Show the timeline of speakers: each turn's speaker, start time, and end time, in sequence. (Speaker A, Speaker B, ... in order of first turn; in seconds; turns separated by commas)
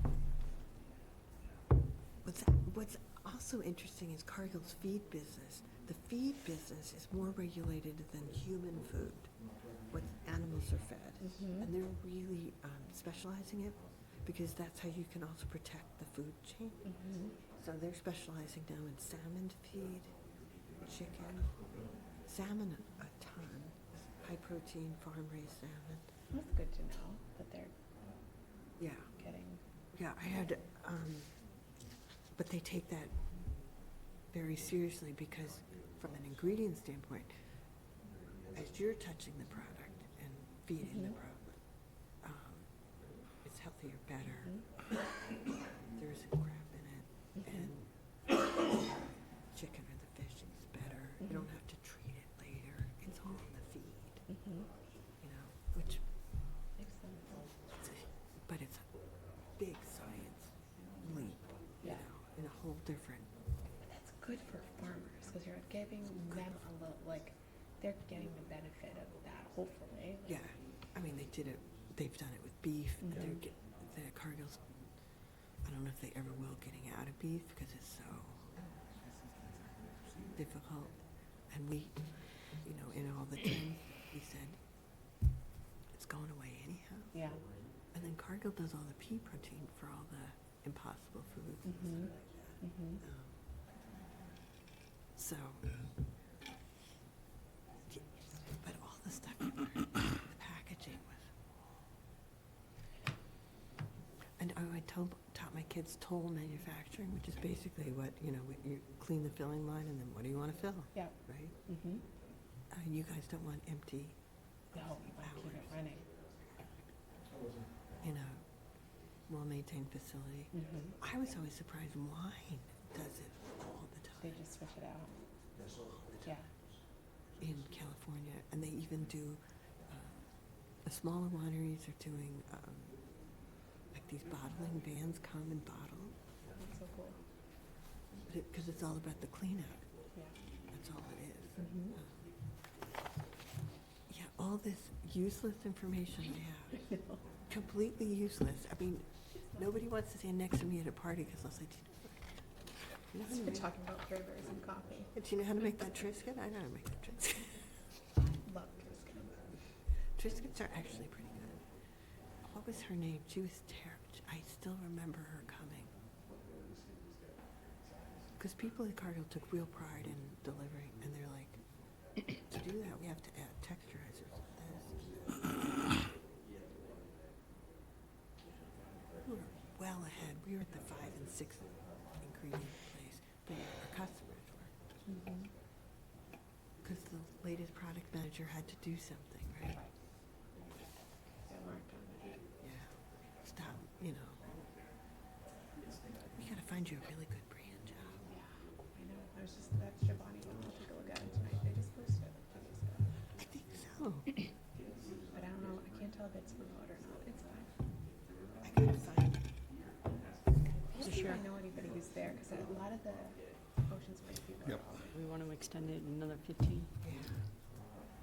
Speaker A: 2.2-9.3, Speaker A: 9.9-16.9, Speaker B: 11.2-11.7, Speaker B: 16.8-17.4, Speaker A: 17.5-20.2, Speaker A: 20.8-21.5, Speaker A: 22.3-26.1, Speaker B: 26.3-27.7, Speaker A: 28.8-29.1, Speaker B: 29.2-29.6, Speaker A: 29.9-31.3, Speaker A: 32.3-33.1, Speaker A: 34.3-37.3, Speaker A: 38.5-41.5, Speaker A: 42.2-42.7, Speaker A: 43.4-44.6, Speaker A: 46.0-47.9, Speaker A: 49.5-54.2, Speaker B: 54.3-54.7, Speaker A: 55.2-56.0, Speaker B: 56.8-57.5, Speaker A: 57.8-58.9, Speaker A: 59.6-63.3, Speaker B: 63.9-70.3, Speaker A: 66.3-66.5, Speaker A: 70.2-74.6, Speaker B: 73.0-73.4, Speaker A: 75.6-78.5, Speaker A: 80.3-81.0, Speaker A: 81.5-84.6, Speaker A: 85.9-87.2, Speaker B: 87.1-87.4, Speaker A: 87.9-93.4, Speaker B: 91.7-92.1, Speaker B: 92.6-93.0, Speaker A: 95.1-95.7, Speaker A: 97.9-101.3, Speaker A: 104.4-111.5, Speaker B: 111.7-112.0, Speaker A: 112.7-114.2, Speaker B: 114.7-116.0, Speaker A: 115.1-115.7, Speaker A: 118.0-118.4, Speaker A: 119.3-124.4, Speaker B: 120.5-121.0, Speaker B: 124.2-125.2, Speaker A: 127.4-130.2, Speaker A: 130.8-133.0, Speaker A: 133.9-136.2, Speaker B: 136.6-137.2, Speaker A: 138.3-139.8, Speaker A: 140.7-142.1, Speaker B: 141.6-141.9, Speaker A: 144.1-146.9, Speaker A: 147.5-152.3, Speaker A: 153.1-153.7, Speaker B: 153.2-155.1, Speaker A: 155.1-157.7, Speaker B: 158.2-159.4, Speaker A: 160.2-161.6, Speaker A: 162.4-165.9, Speaker A: 168.4-171.6, Speaker A: 172.3-175.9, Speaker A: 179.2-184.7, Speaker B: 185.1-185.5, Speaker A: 186.8-189.8, Speaker B: 191.4-192.4, Speaker A: 192.6-192.9, Speaker A: 193.4-194.5, Speaker A: 196.4-198.2, Speaker B: 198.9-203.1, Speaker A: 203.4-204.3, Speaker B: 205.3-207.7, Speaker A: 208.6-209.4, Speaker B: 210.7-215.1, Speaker C: 211.0-211.4, Speaker C: 215.1-216.9